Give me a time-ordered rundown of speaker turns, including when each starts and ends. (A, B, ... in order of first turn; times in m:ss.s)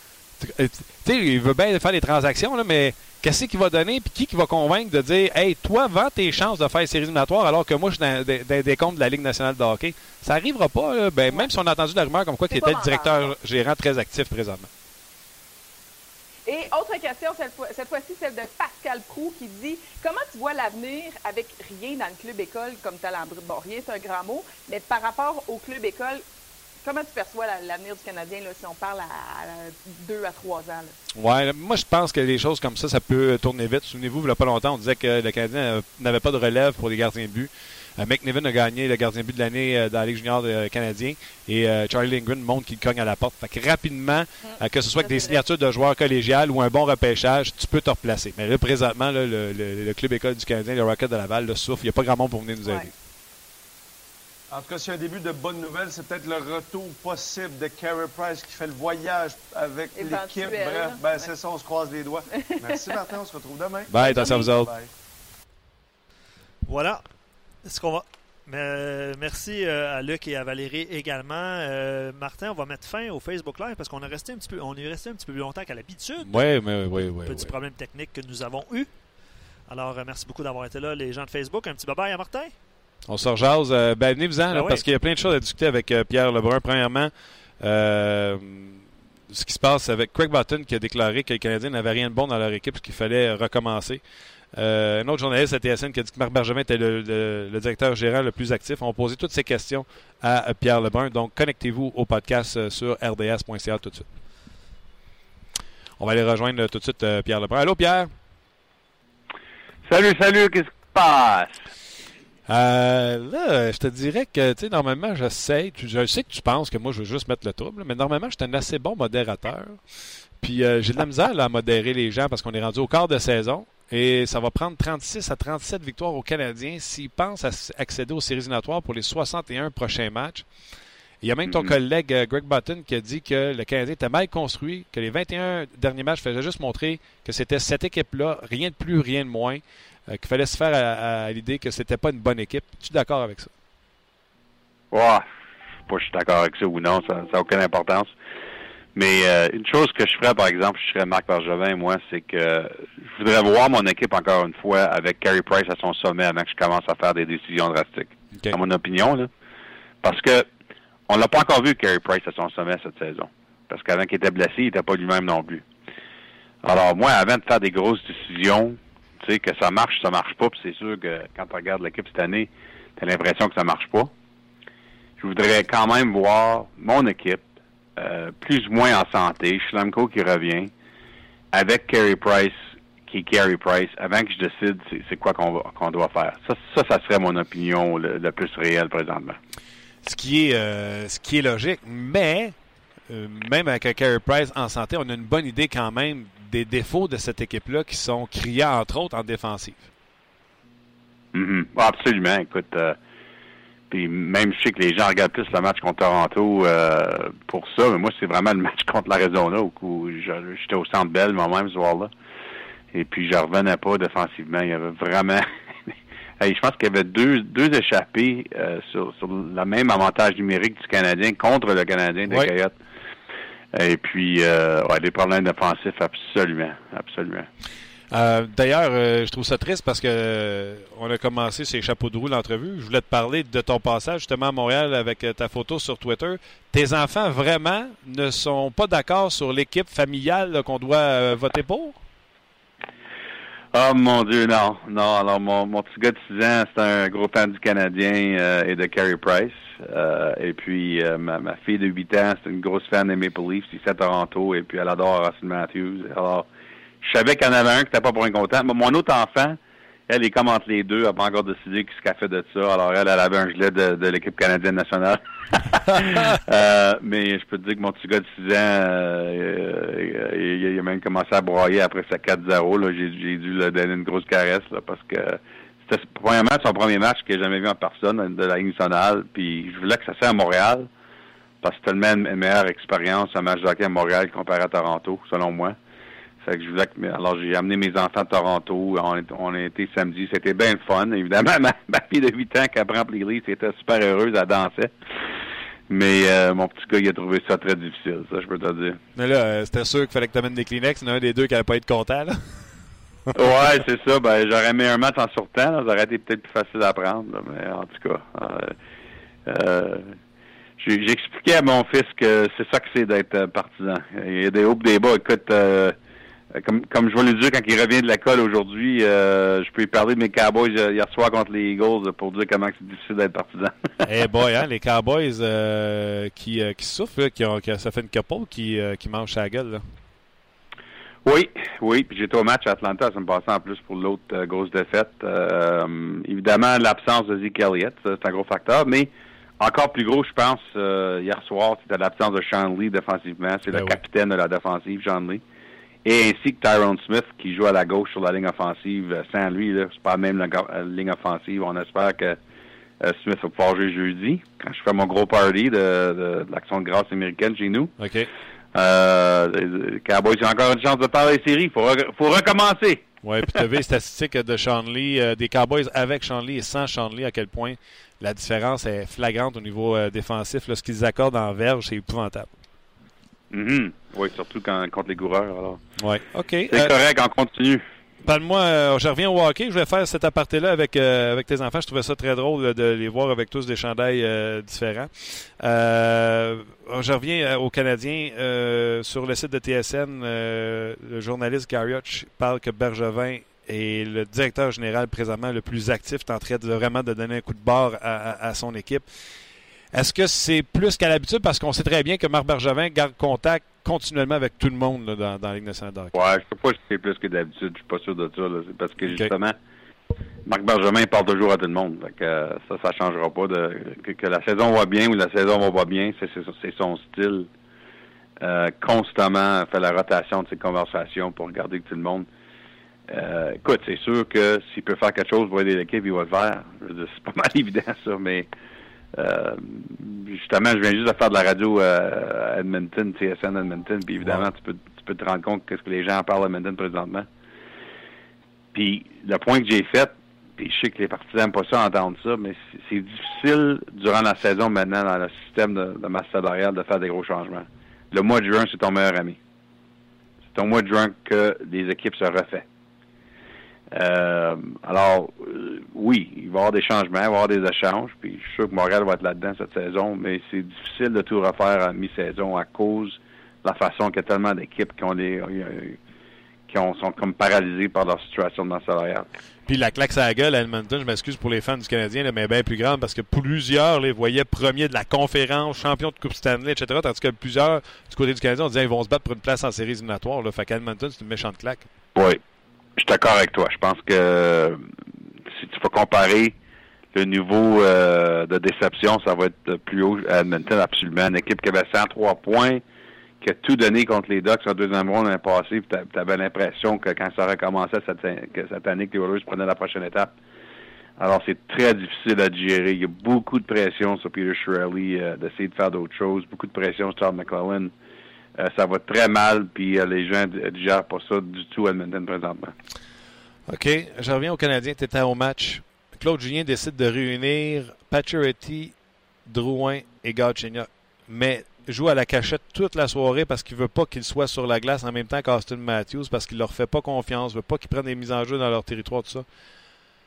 0:00.4-0:14.7 A
0:12.5-0:13.3 B
0:16.5-0:26.2 B
0:26.8-0:31.0 B
0:31.2-0:52.9 A
0:44.4-0:45.4 B
0:54.5-1:04.9 C
1:00.0-1:01.3 B
1:02.3-1:03.1 B
1:03.9-1:04.7 A
1:04.0-1:04.5 B
1:06.6-1:07.0 D
1:07.6-1:18.9 D
1:16.2-1:17.5 A
1:19.7-1:22.5 D
1:23.1-1:34.0 A
1:24.5-1:24.8 D
1:34.5-1:44.1 A
1:46.0-1:48.1 A
1:49.9-1:51.6 E
1:52.5-1:59.8 A
2:00.4-2:10.5 A
2:11.2-2:23.5 A
2:11.5-2:11.7 E
2:24.9-2:25.2 E
2:25.9-2:28.1 E
2:29.0-2:39.3 E
2:40.0-2:40.5 E
2:41.1-2:45.6 E
2:46.6-2:54.1 E
2:55.2-2:57.4 E
2:58.0-3:00.7 E
3:01.5-3:09.4 E
3:10.0-3:12.6 A
3:13.1-3:19.9 A
3:21.3-3:23.0 E
3:23.9-3:32.1 E
3:32.9-3:42.7 E
3:43.7-3:47.5 E
3:48.1-4:02.0 A
4:03.7-4:16.5 E
4:17.0-4:40.9 E
4:41.6-4:45.8 E
4:46.4-4:54.9 E
4:55.9-4:59.0 E
4:59.2-5:02.6 A
5:03.4-5:08.8 E
5:09.5-5:10.2 E
5:10.8-5:16.0 E
5:16.5-5:23.9 E
5:24.0-5:29.8 A
5:31.2-5:45.4 E
5:43.7-5:44.0 A
5:46.0-5:52.4 E
5:53.0-5:57.9 E
5:58.0-5:58.3 A
5:58.7-6:03.0 E
6:03.2-6:12.5 A
6:13.5-6:15.8 E
6:16.0-6:17.0 A
6:16.7-6:17.8 E
6:18.2-6:39.1 A
6:39.9-6:46.1 A
6:46.1-6:49.6 E
6:49.0-6:49.3 A
6:50.5-6:57.5 E
6:58.4-7:02.3 E
7:03.1-7:08.5 E
7:09.1-7:17.3 E
7:18.7-7:29.4 E
7:30.5-7:32.6 E
7:33.9-7:46.0 E
7:46.7-7:49.3 E
7:49.7-8:01.9 A
8:02.2-8:02.4 E
8:03.0-8:04.8 E
8:05.5-8:06.6 E
8:07.1-8:12.8 E
8:13.4-8:20.3 E
8:21.2-8:27.9 E
8:28.6-8:32.7 E
8:33.7-8:38.9 A
8:39.5-8:49.5 A